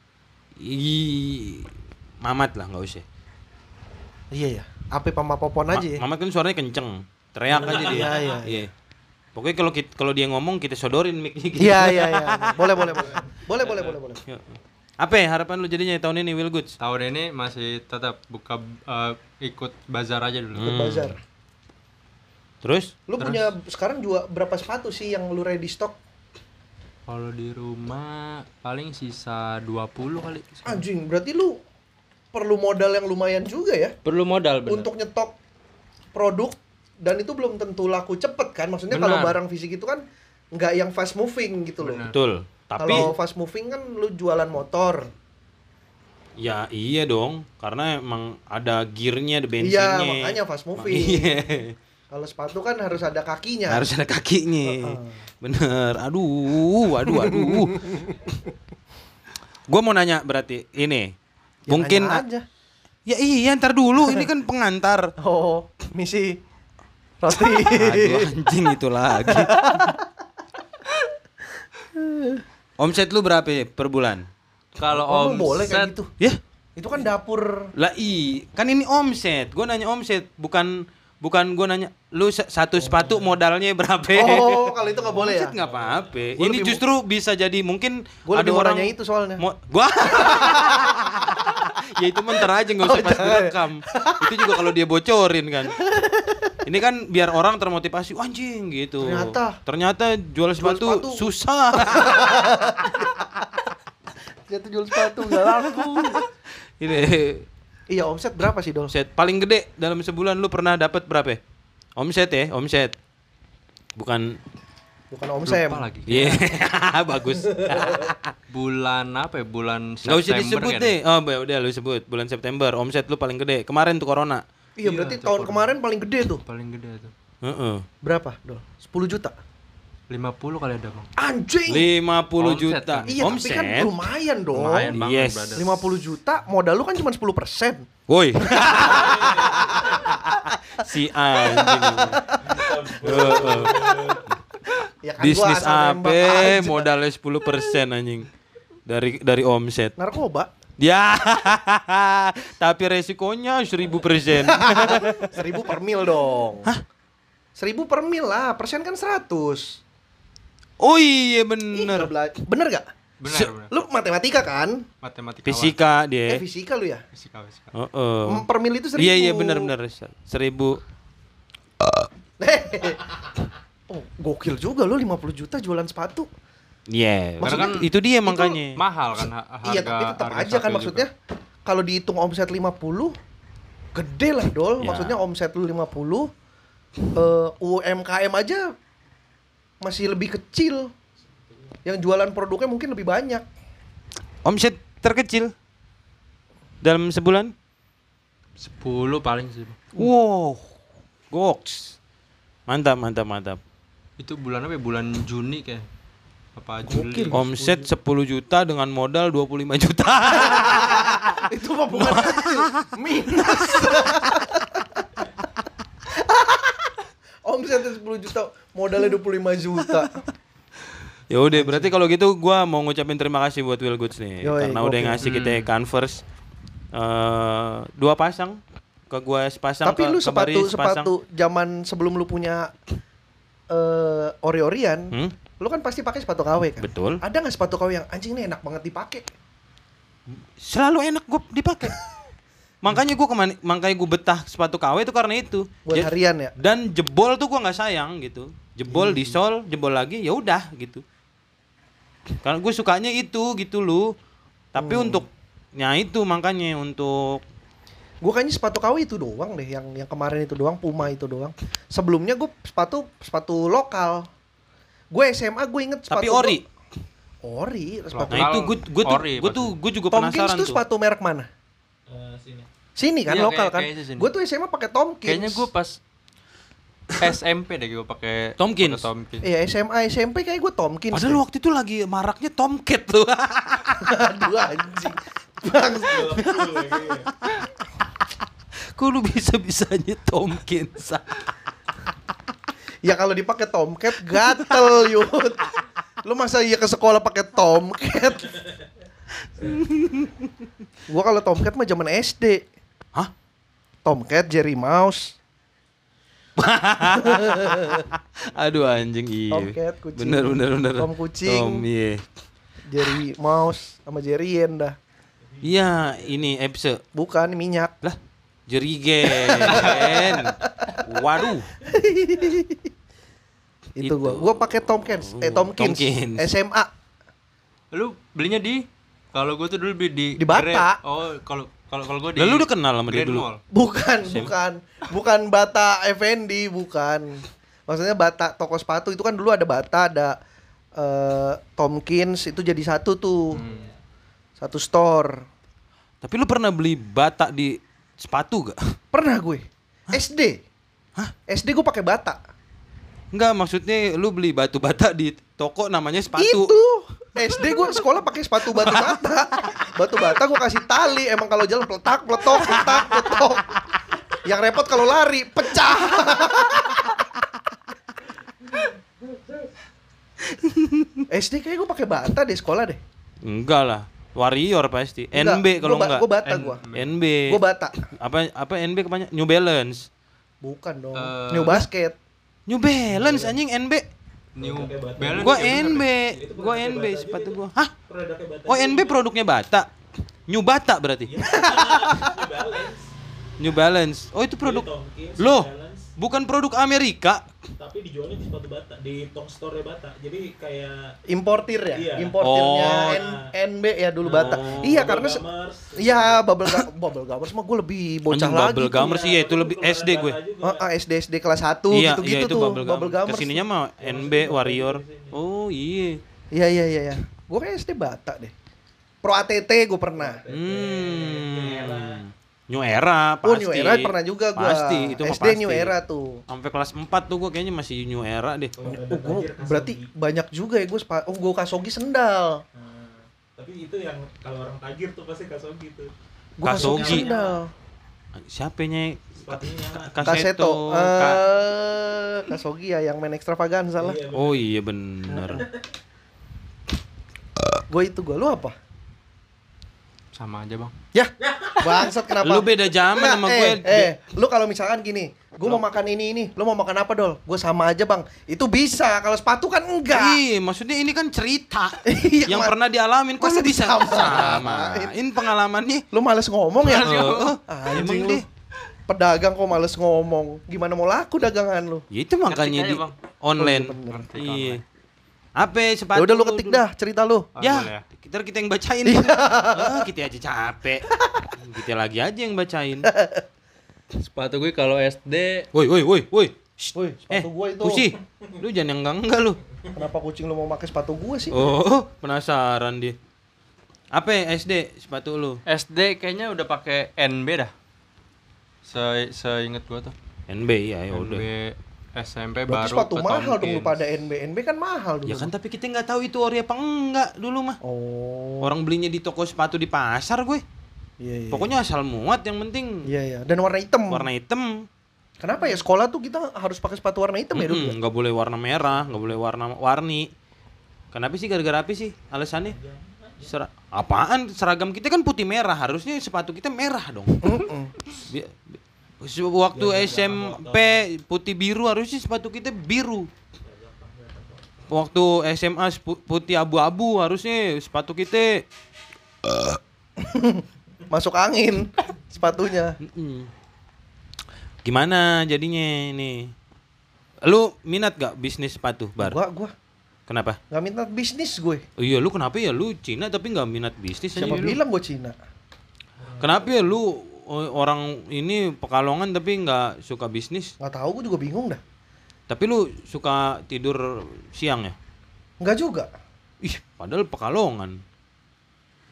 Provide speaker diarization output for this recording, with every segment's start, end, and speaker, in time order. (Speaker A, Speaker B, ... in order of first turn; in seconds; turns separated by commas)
Speaker A: 0.6-3.0, Speaker B: 4.3-6.0, Speaker A: 5.7-8.7, Speaker B: 7.5-8.7, Speaker C: 7.6-8.3, Speaker A: 9.3-12.8, Speaker B: 11.6-14.2, Speaker C: 12.6-13.3, Speaker D: 13.6-13.9, Speaker A: 14.3-16.7, Speaker D: 16.8-20.7, Speaker A: 20.5-21.2, Speaker B: 20.6-21.2, Speaker A: 22.6-22.9, Speaker B: 23.1-26.0, Speaker D: 23.2-23.5, Speaker D: 27.1-30.8, Speaker B: 30.6-31.6, Speaker B: 32.3-33.9, Speaker D: 34.0-34.9, Speaker B: 34.7-35.4, Speaker B: 36.1-42.0, Speaker D: 38.9-39.4, Speaker D: 41.8-42.1, Speaker A: 42.1-43.1, Speaker B: 42.8-45.1, Speaker A: 46.4-51.7, Speaker B: 49.6-51.6, Speaker B: 52.1-53.9, Speaker A: 53.7-58.2, Speaker B: 54.6-55.2, Speaker B: 57.1-58.2, Speaker A: 59.7-61.1, Speaker B: 61.7-62.4, Speaker A: 61.7-62.2, Speaker A: 63.0-65.1, Speaker B: 65.2-66.4, Speaker B: 67.2-68.3, Speaker A: 67.3-70.0, Speaker B: 69.2-70.1, Speaker B: 71.9-72.4, Speaker A: 72.8-74.3, Speaker D: 74.8-75.9, Speaker B: 74.9-76.1, Speaker B: 76.8-77.7, Speaker A: 77.8-95.8, Speaker C: 82.8-83.3, Speaker B: 84.1-85.5, Speaker C: 84.8-86.3, Speaker B: 86.4-86.8, Speaker B: 88.3-89.4, Speaker B: 90.1-90.9, Speaker B: 92.8-94.2, Speaker B: 95.8-96.5, Speaker A: 96.6-103.0, Speaker B: 99.0-99.6, Speaker B: 100.6-103.5, Speaker B: 104.5-106.2, Speaker A: 105.2-107.5, Speaker B: 107.9-108.9, Speaker A: 108.9-111.4, Speaker A: 112.0-113.0, Speaker A: 114.0-114.4, Speaker B: 115.1-115.8, Speaker D: 115.5-116.4, Speaker A: 116.1-118.3, Speaker B: 117.5-118.1, Speaker D: 118.5-120.9, Speaker A: 120.0-124.4, Speaker B: 124.8-126.4, Speaker D: 124.8-125.7, Speaker D: 126.3-127.1, Speaker A: 127.4-127.8, Speaker B: 128.0-129.3, Speaker D: 130.1-131.1, Speaker B: 131.2-131.9, Speaker A: 131.7-134.0, Speaker D: 132.4-133.3, Speaker B: 133.1-134.9, Speaker D: 134.5-135.8, Speaker A: 134.9-135.6, Speaker B: 135.6-137.9, Speaker A: 138.1-142.2, Speaker B: 138.4-143.5, Speaker C: 138.7-140.0, Speaker C: 142.3-144.2, Speaker A: 143.0-143.8, Speaker B: 145.0-146.9, Speaker A: 145.2-148.3, Speaker A: 148.8-149.9, Speaker B: 150.0-150.5, Speaker A: 150.8-155.4, Speaker B: 154.3-156.7, Speaker B: 157.6-159.8, Speaker A: 160.8-162.1, Speaker B: 161.7-162.9, Speaker D: 163.2-163.7, Speaker B: 163.7-164.8, Speaker D: 165.0-165.8, Speaker A: 165.4-166.4, Speaker B: 166.3-167.0, Speaker D: 167.1-167.7, Speaker A: 167.7-170.8, Speaker B: 168.3-169.7, Speaker B: 172.4-173.2, Speaker B: 173.9-176.3, Speaker A: 176.9-178.8, Speaker D: 177.4-181.0, Speaker B: 179.6-181.1, Speaker B: 181.7-183.1, Speaker B: 183.9-186.3, Speaker A: 184.8-185.2, Speaker B: 187.1-188.7, Speaker B: 189.8-190.9, Speaker B: 191.8-193.4, Speaker A: 194.4-195.5, Speaker A: 196.8-197.5, Speaker D: 198.6-199.8, Speaker A: 199.9-200.7, Speaker A: 201.3-202.0, Speaker A: 202.7-203.6, Speaker D: 204.2-205.8, Speaker D: 206.6-207.4, Speaker B: 206.9-207.9, Speaker A: 207.3-214.2, Speaker B: 210.4-215.3, Speaker B: 216.1-216.9, Speaker B: 217.4-220.2, Speaker A: 219.8-220.2, Speaker A: 221.3-226.2, Speaker B: 221.5-221.9, Speaker B: 224.4-225.2, Speaker D: 225.2-225.7, Speaker A: 226.9-231.1, Speaker B: 229.8-232.7, Speaker B: 233.7-239.3, Speaker A: 236.8-237.2, Speaker A: 240.3-241.9, Speaker A: 242.8-251.0, Speaker B: 245.8-246.5, Speaker B: 248.9-249.4, Speaker A: 252.3-254.1, Speaker A: 254.7-257.4, Speaker B: 254.8-255.2, Speaker B: 258.2-264.3, Speaker B: 265.1-266.6, Speaker A: 266.1-266.6, Speaker B: 267.4-268.6, Speaker D: 268.1-269.8, Speaker A: 268.3-270.8, Speaker B: 270.1-271.5, Speaker C: 272.1-272.7, Speaker B: 273.0-275.7, Speaker D: 273.3-274.3, Speaker D: 275.2-276.0, Speaker D: 277.2-279.4, Speaker A: 278.6-279.1, Speaker B: 279.4-281.4, Speaker A: 281.1-284.0, Speaker B: 284.0-286.7, Speaker C: 286.0-287.3, Speaker A: 288.9-291.4, Speaker B: 293.0-298.7, Speaker A: 294.3-295.0, Speaker A: 299.4-300.5, Speaker B: 301.1-302.7, Speaker B: 304.0-305.4, Speaker A: 306.6-312.2, Speaker B: 307.0-308.1, Speaker B: 309.5-311.8, Speaker B: 312.9-314.9, Speaker C: 315.5-316.4, Speaker A: 315.6-317.0, Speaker B: 317.1-317.9, Speaker A: 318.7-321.7, Speaker B: 319.2-321.0, Speaker D: 319.6-320.4, Speaker B: 321.8-322.9, Speaker B: 324.0-326.9, Speaker A: 324.0-326.5, Speaker D: 327.9-333.6, Speaker B: 330.4-331.0, Speaker A: 332.4-333.4, Speaker B: 333.7-340.4, Speaker A: 334.2-334.5, Speaker B: 340.9-343.6, Speaker D: 343.5-343.9, Speaker C: 343.6-343.9, Speaker B: 344.6-345.4, Speaker A: 346.2-348.9, Speaker B: 349.1-350.6, Speaker B: 351.5-352.4, Speaker A: 353.3-356.7, Speaker B: 356.3-363.8, Speaker A: 357.4-358.0, Speaker A: 358.7-359.2, Speaker A: 362.6-363.9, Speaker B: 364.3-367.2, Speaker A: 370.4-371.2, Speaker B: 371.3-373.0, Speaker A: 373.4-376.2, Speaker B: 375.3-376.8, Speaker D: 376.4-377.1, Speaker A: 376.9-377.6, Speaker B: 377.5-378.0, Speaker A: 378.1-380.1, Speaker B: 380.6-382.2, Speaker D: 381.1-381.9, Speaker A: 382.7-384.0, Speaker C: 383.1-383.6, Speaker D: 384.6-386.1, Speaker C: 384.6-389.2, Speaker A: 385.3-387.9, Speaker A: 388.6-389.9, Speaker A: 390.5-391.6, Speaker C: 391.2-393.1, Speaker B: 391.5-392.3, Speaker A: 393.6-397.5, Speaker C: 394.6-396.1, Speaker C: 397.8-401.2, Speaker B: 401.3-405.4, Speaker C: 401.9-402.4, Speaker A: 402.4-403.2, Speaker C: 403.0-403.5, Speaker C: 404.3-406.4, Speaker A: 404.3-405.1, Speaker B: 405.9-409.1, Speaker A: 408.3-410.4, Speaker C: 408.9-410.8, Speaker B: 410.6-413.6, Speaker A: 411.9-416.2, Speaker C: 414.0-415.4, Speaker B: 416.5-418.5, Speaker B: 419.2-420.4, Speaker C: 420.1-422.2, Speaker A: 420.5-425.9, Speaker B: 423.4-426.4, Speaker A: 426.5-428.7, Speaker C: 428.7-430.1, Speaker B: 428.8-432.6, Speaker C: 432.7-436.1, Speaker B: 436.6-437.7, Speaker A: 436.6-437.3, Speaker C: 436.7-437.6, Speaker A: 438.3-441.4, Speaker C: 439.4-440.3, Speaker B: 440.2-444.2, Speaker C: 444.0-444.7, Speaker A: 444.3-445.7, Speaker B: 445.3-445.6, Speaker B: 447.9-448.7, Speaker D: 450.3-450.9, Speaker B: 451.1-460.4, Speaker A: 452.4-454.1, Speaker A: 460.1-466.0, Speaker B: 462.0-462.8, Speaker B: 463.4-465.2, Speaker B: 466.1-468.4, Speaker A: 466.8-468.4, Speaker D: 466.9-467.6, Speaker B: 469.1-472.0, Speaker A: 472.1-474.8, Speaker D: 472.5-473.1, Speaker B: 473.6-474.2, Speaker D: 474.1-474.8, Speaker A: 475.6-476.8, Speaker B: 476.1-477.5, Speaker D: 477.6-478.1, Speaker A: 477.6-481.1, Speaker B: 479.0-480.1, Speaker B: 481.2-481.5, Speaker A: 481.6-483.1, Speaker B: 483.0-483.4, Speaker D: 484.1-485.7, Speaker A: 485.7-489.6, Speaker B: 486.9-488.1, Speaker B: 489.9-491.6, Speaker A: 491.5-493.1, Speaker A: 494.1-495.6, Speaker D: 495.6-497.7, Speaker D: 498.8-500.1, Speaker A: 500.5-501.4, Speaker D: 501.1-504.0, Speaker B: 502.7-505.5, Speaker A: 505.2-507.8, Speaker B: 507.8-508.7, Speaker A: 508.6-510.6, Speaker B: 511.2-511.7, Speaker A: 511.5-513.1, Speaker B: 513.0-514.3, Speaker A: 514.1-514.9, Speaker B: 515.4-517.9, Speaker A: 517.5-520.3, Speaker A: 521.1-522.8, Speaker C: 522.6-523.5, Speaker A: 523.4-533.3, Speaker B: 527.4-527.9, Speaker C: 529.7-531.0, Speaker C: 533.6-534.7, Speaker A: 534.9-538.6, Speaker A: 539.4-539.8, Speaker B: 540.2-543.0, Speaker A: 543.0-543.5, Speaker A: 544.8-546.5, Speaker A: 547.4-549.4, Speaker B: 549.2-549.7, Speaker A: 550.3-550.6, Speaker B: 550.7-551.8, Speaker A: 552.0-554.8, Speaker D: 554.3-554.8, Speaker B: 554.4-555.4, Speaker C: 556.2-556.9, Speaker A: 556.4-560.7, Speaker B: 560.8-561.8, Speaker A: 562.5-564.9, Speaker B: 565.6-566.1, Speaker A: 566.6-568.0